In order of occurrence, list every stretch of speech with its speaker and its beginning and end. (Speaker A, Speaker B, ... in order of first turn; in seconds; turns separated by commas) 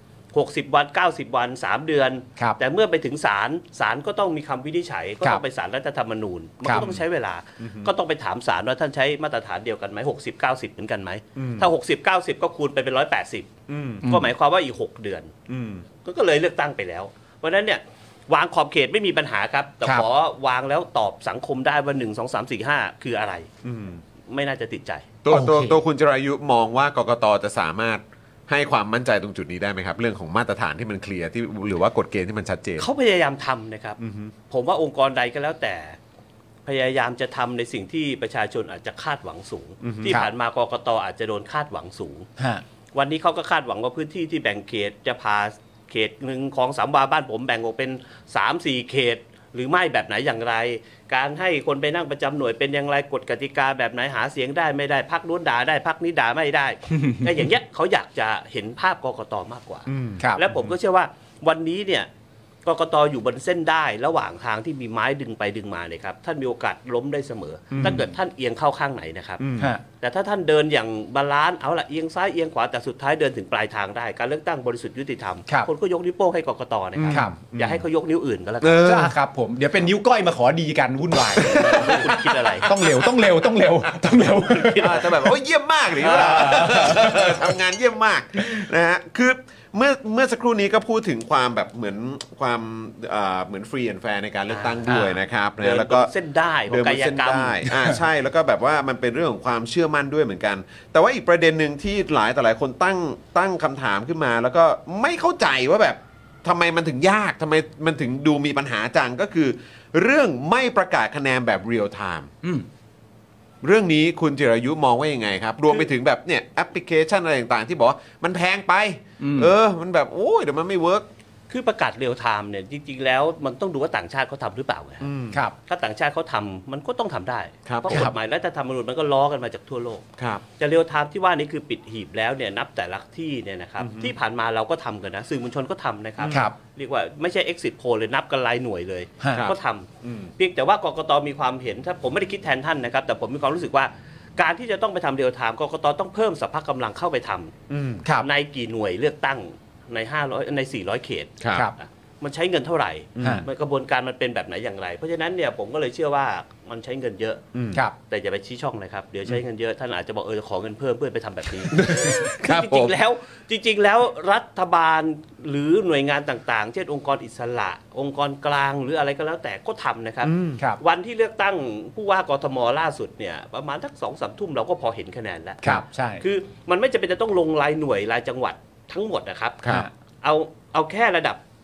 Speaker A: 0.3-15.3, Speaker B: 6.6-6.9, Speaker C: 6.7-7.0, Speaker C: 7.6-7.9, Speaker C: 11.4-11.7, Speaker C: 13.7-14.1, Speaker B: 14.0-14.3, Speaker C: 15.5-15.8, Speaker A: 16.0-23.5, Speaker C: 23.6-24.0, Speaker A: 24.3-25.1, Speaker C: 25.2-32.9, Speaker B: 25.3-25.8, Speaker A: 32.8-34.0, Speaker C: 34.0-34.3, Speaker A: 34.5-36.0, Speaker A: 36.6-42.3, Speaker C: 39.8-40.1, Speaker B: 42.4-42.6, Speaker A: 42.9-62.1, Speaker B: 56.9-57.3, Speaker C: 59.9-60.7, Speaker A: 62.6-69.4, Speaker C: 67.7-68.0, Speaker C: 69.4-69.7, Speaker B: 69.6-69.8, Speaker A: 70.0-78.9, Speaker C: 77.0-77.8, Speaker B: 77.1-77.3, Speaker C: 78.6-79.1, Speaker B: 78.8-85.2, Speaker C: 81.4-82.7, Speaker A: 81.4-82.7, Speaker A: 84.5-85.1, Speaker C: 84.7-96.1, Speaker B: 86.0-87.4, Speaker A: 86.0-86.7, Speaker A: 94.5-95.1, Speaker A: 95.6-97.7, Speaker C: 96.7-112.3, Speaker C: 113.6-121.1, Speaker B: 119.2-119.5, Speaker A: 121.5-125.1, Speaker C: 125.0-125.4, Speaker A: 125.7-130.1, Speaker C: 127.7-128.1, Speaker B: 127.9-128.1, Speaker C: 130.2-130.4, Speaker A: 130.6-147.6, Speaker C: 133.8-134.1, Speaker C: 136.2-136.4, Speaker B: 136.3-136.6, Speaker B: 139.2-139.5, Speaker C: 139.3-140.3, Speaker C: 147.7-148.1, Speaker A: 148.2-157.4, Speaker C: 151.4-151.7, Speaker C: 153.2-153.5, Speaker C: 157.5-157.8, Speaker A: 158.1-181.4, Speaker C: 161.7-162.9, Speaker C: 170.2-170.6, Speaker B: 175.6-176.2, Speaker C: 179.6-179.9